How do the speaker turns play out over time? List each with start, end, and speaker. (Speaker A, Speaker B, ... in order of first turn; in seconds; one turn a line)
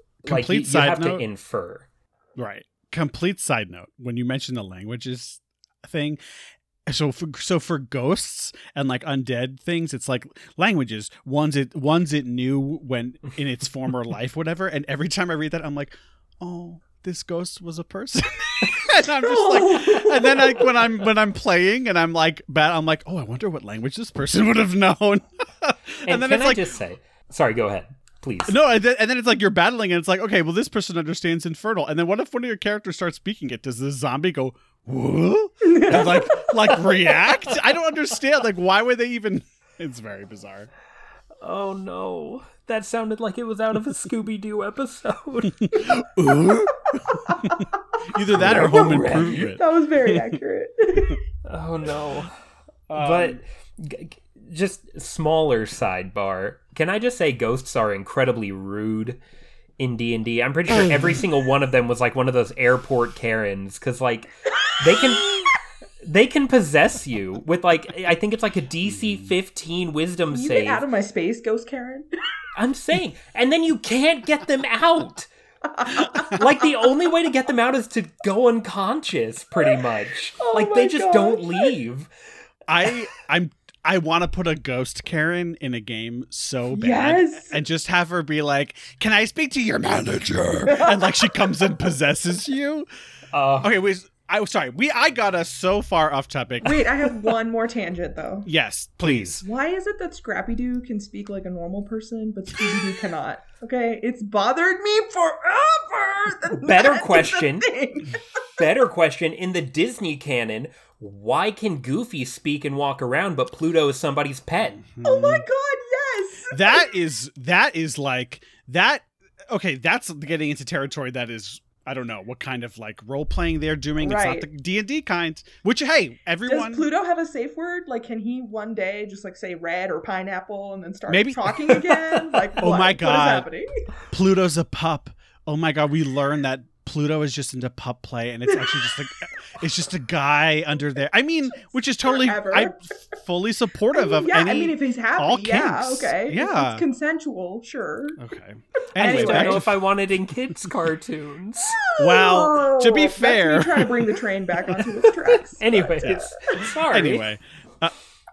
Speaker A: 0.2-1.9
Speaker B: 0.3-1.2
Speaker B: 2.4-6.2
Speaker B: 6.9-26.7
Speaker C: 19.2-20.8
Speaker A: 26.1-28.6
Speaker B: 28.5-40.7
Speaker C: 35.6-36.5
Speaker A: 36.6-37.0
Speaker A: 41.4-46.1
Speaker B: 45.7-50.4
Speaker C: 47.1-47.6
Speaker C: 48.3-51.2
Speaker A: 48.4-49.4
Speaker A: 51.5-52.3
Speaker B: 52.9-53.4
Speaker A: 52.9-59.2
Speaker A: 59.8-65.5
Speaker A: 66.0-70.8
Speaker C: 70.3-72.1
Speaker A: 72.6-75.3
Speaker C: 75.6-76.7
Speaker A: 76.2-82.1
Speaker C: 79.5-79.8
Speaker C: 80.4-81.7
Speaker B: 82.7-92.9
Speaker C: 86.7-87.6
Speaker C: 90.7-91.0
Speaker A: 93.3-93.8
Speaker B: 93.6-96.9
Speaker C: 96.6-98.5
Speaker B: 98.5-99.5
Speaker A: 99.0-99.4
Speaker C: 99.4-108.2
Speaker A: 106.6-107.7
Speaker A: 108.5-114.8
Speaker B: 114.8-115.4
Speaker C: 115.0-116.9
Speaker B: 116.5-126.9
Speaker C: 124.0-124.5
Speaker C: 126.5-133.7
Speaker B: 131.1-133.5
Speaker B: 134.1-146.8
Speaker C: 142.0-142.8
Speaker C: 143.9-148.2
Speaker B: 148.2-149.7
Speaker C: 149.0-149.7
Speaker A: 149.0-151.8
Speaker C: 151.8-156.7
Speaker B: 152.0-154.2
Speaker A: 154.8-157.3
Speaker B: 156.9-157.9